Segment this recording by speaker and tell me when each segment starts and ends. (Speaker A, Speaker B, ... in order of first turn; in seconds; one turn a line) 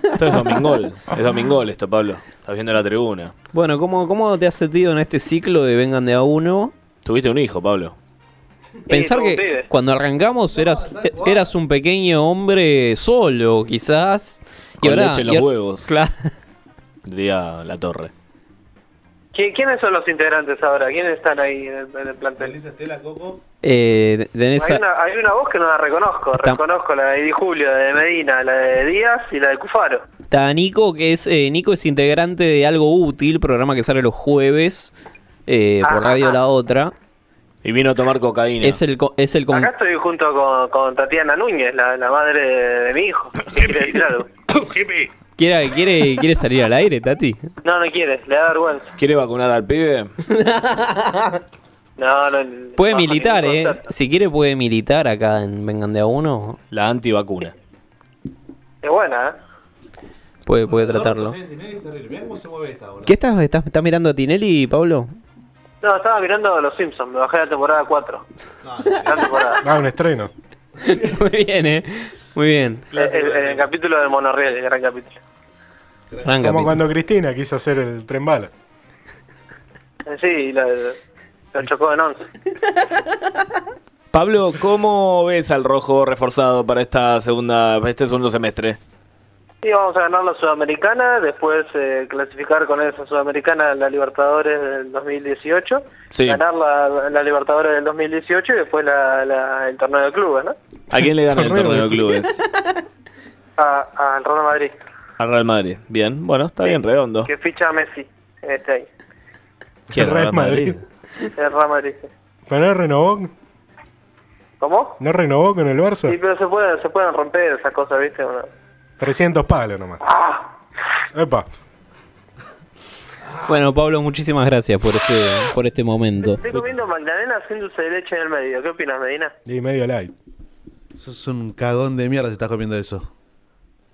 Speaker A: 0.1-3.3
Speaker B: 3.5-6.7
Speaker A: 7.0-7.9
Speaker C: 8.9-9.7
Speaker B: 8.9-16.3
Speaker D: 10.5-11.5
Speaker A: 14.8-15.9
Speaker A: 17.1-18.1
Speaker C: 19.3-22.5
Speaker D: 22.4-23.4
Speaker B: 23.6-24.8
Speaker C: 24.6-30.0
Speaker B: 30.3-34.9
Speaker B: 35.5-36.9
Speaker C: 35.8-36.4
Speaker A: 37.6-38.8
Speaker B: 38.6-39.7
Speaker C: 39.5-44.3
Speaker B: 45.4-47.5
Speaker C: 47.6-48.9
Speaker A: 49.0-50.1
Speaker B: 50.3-51.3
Speaker C: 52.0-53.8
Speaker B: 52.8-56.6
Speaker A: 56.7-57.5
Speaker C: 58.8-59.4
Speaker B: 60.5-61.4
Speaker D: 60.6-63.2
Speaker B: 63.0-65.1
Speaker C: 65.8-68.2
Speaker D: 68.6-69.4
Speaker C: 69.0-69.6
Speaker E: 69.6-70.3
Speaker B: 70.8-72.9
Speaker A: 72.9-73.7
Speaker C: 72.9-75.2
Speaker B: 76.2-76.8
Speaker E: 76.4-78.5
Speaker C: 80.1-81.0
Speaker C: 81.5-82.3
Speaker A: 84.1-88.8
Speaker C: 89.6-100.5
Speaker A: 96.1-96.4
Speaker A: 100.9-102.5
Speaker E: 101.3-102.1
Speaker C: 103.6-104.7
Speaker A: 105.2-107.3
Speaker C: 106.6-108.9
Speaker E: 109.9-110.8
Speaker A: 109.9-110.8
Speaker C: 111.4-112.1
Speaker E: 112.5-113.3
Speaker C: 114.6-115.0
Speaker E: 115.0-116.2
Speaker C: 116.1-118.5
Speaker E: 119.0-120.0
Speaker C: 120.1-120.4
Speaker E: 121.1-121.5
Speaker B: 123.5-126.6
Speaker C: 126.2-129.3
Speaker E: 129.4-130.1
Speaker D: 130.9-133.1